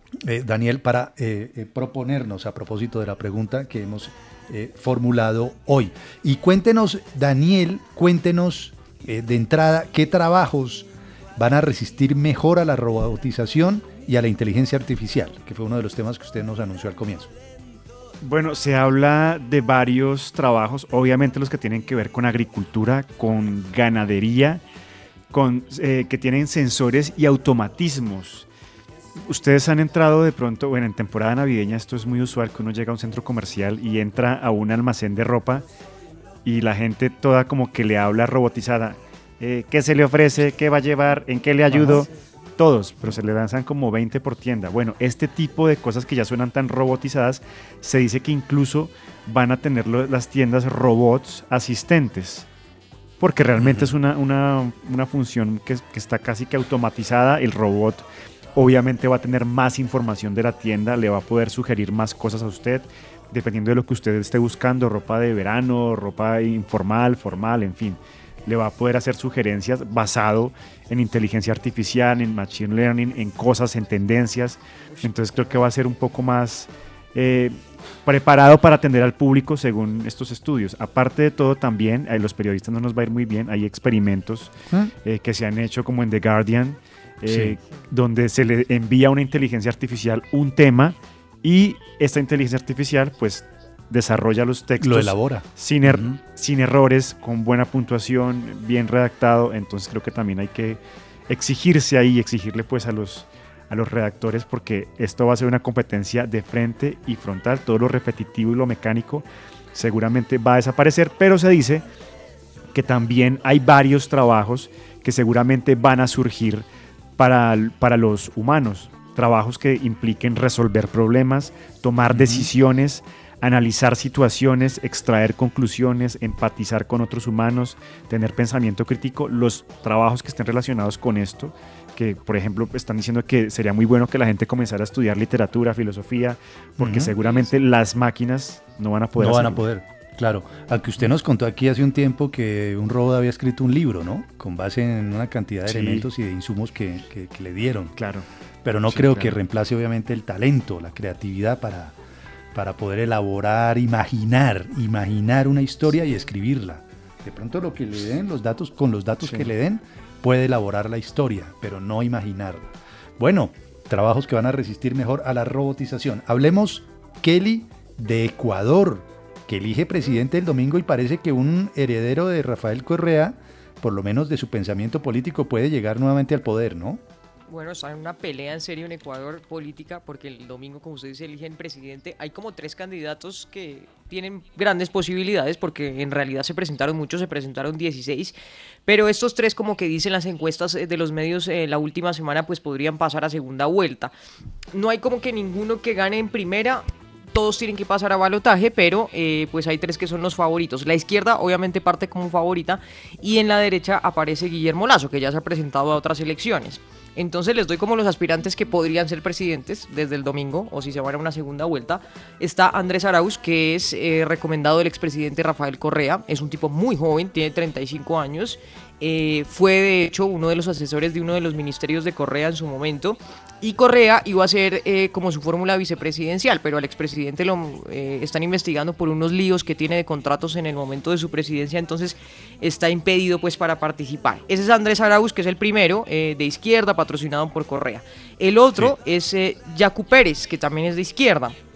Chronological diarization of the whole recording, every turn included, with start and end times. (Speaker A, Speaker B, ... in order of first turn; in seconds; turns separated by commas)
Speaker A: 0.2-17.3, Speaker B: 18.2-24.6, Speaker B: 25.3-28.5, Speaker B: 29.2-35.6, Speaker B: 36.5-52.5, Speaker A: 41.7-42.1, Speaker B: 53.2-84.5, Speaker A: 53.6-53.9, Speaker B: 85.0-111.8, Speaker A: 87.3-87.6, Speaker A: 94.8-96.2, Speaker B: 112.7-116.7, Speaker B: 117.2-139.6, Speaker A: 122.1-122.5, Speaker A: 136.8-137.2, Speaker A: 139.2-147.9, Speaker B: 145.7-146.1, Speaker B: 148.0-148.3, Speaker A: 148.6-152.0, Speaker B: 148.9-149.4, Speaker A: 152.5-177.0, Speaker B: 159.2-159.5, Speaker C: 177.5-188.3, Speaker C: 188.9-194.1, Speaker C: 194.7-241.6